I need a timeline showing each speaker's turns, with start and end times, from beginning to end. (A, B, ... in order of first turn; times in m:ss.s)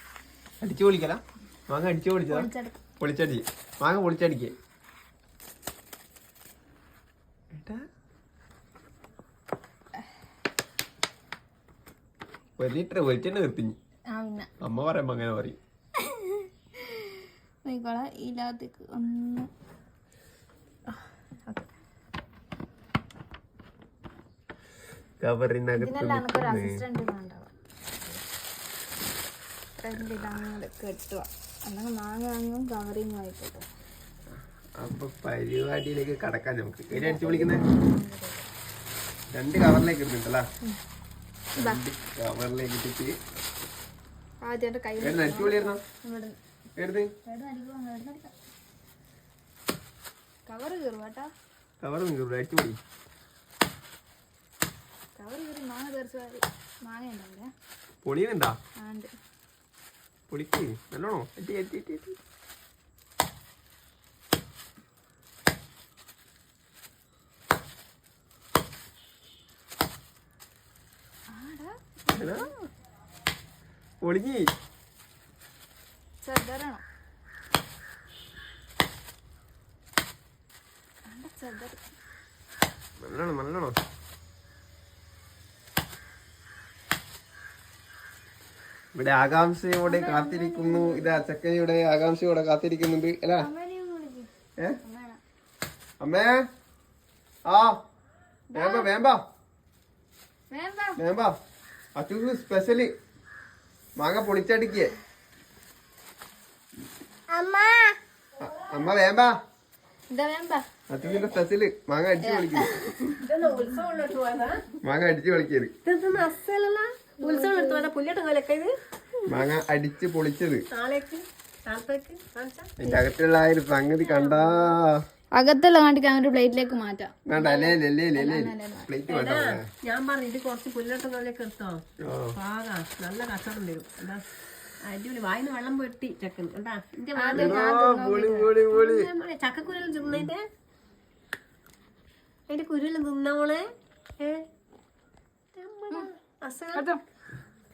0:00.6-0:04.6 A
0:02.3-0:02.8 B
0:07.5-0:07.8 A
0:12.6-0:13.8 A
0:14.1-0:14.5 B
0:14.6-0:15.6 A
0:16.1-0:17.1 B
0:17.6-0:19.5 B
0:25.2-0:26.8 A
0:25.8-0:27.5 B
0:29.8-0:33.6 B
0:30.0-0:30.4 A
0:34.8-0:37.6 A
0:36.9-0:38.5 B
0:39.3-0:40.5 A
0:41.6-0:43.2 A
0:41.6-0:41.8 B
0:44.4-0:46.4 B
0:45.0-0:45.8 A
0:46.8-0:47.1 A
0:47.2-0:48.3 B
0:50.5-0:51.3 B
0:51.8-0:52.8 A
0:55.2-0:57.5 B
0:58.0-0:58.6 A
0:58.8-0:59.1 B
1:00.3-1:02.2 A
1:11.3-1:12.5 B
1:12.1-1:12.5 A
1:14.0-1:14.5 A
1:16.2-1:16.8 B
1:21.1-1:21.8 B
1:23.0-1:23.8 A
1:29.0-1:33.5 A
1:29.9-1:31.2 B
1:33.4-1:34.3 B
1:34.8-1:35.2 B
1:36.0-1:36.4 A
1:37.5-1:37.8 A
1:38.5-1:38.9 B
1:38.6-1:39.2 A
1:40.5-1:41.0 B
1:41.0-1:41.4 A
1:42.0-1:42.9 A
1:44.0-1:44.9 A
1:47.3-1:48.0 B
1:48.4-1:49.4 A
1:50.1-1:50.6 B
1:50.9-1:53.1 A
1:52.2-1:53.2 B
1:53.2-1:54.6 C
1:54.8-1:55.7 A
1:55.8-1:59.5 C
1:57.2-1:57.9 B
1:59.3-2:00.7 A
2:00.7-2:02.7 C
2:02.8-2:05.0 A
2:04.0-2:04.8 C
2:05.4-2:08.9 B
2:07.3-2:09.7 A
2:09.1-2:11.8 C
2:12.0-2:12.4 A
2:12.3-2:14.2 C
2:14.9-2:17.6 C
2:17.2-2:18.6 B
2:17.4-2:19.1 A
2:18.7-2:20.5 C
2:22.5-2:23.7 C
2:24.2-2:24.5 C
2:25.5-2:26.9 C
2:26.7-2:27.0 B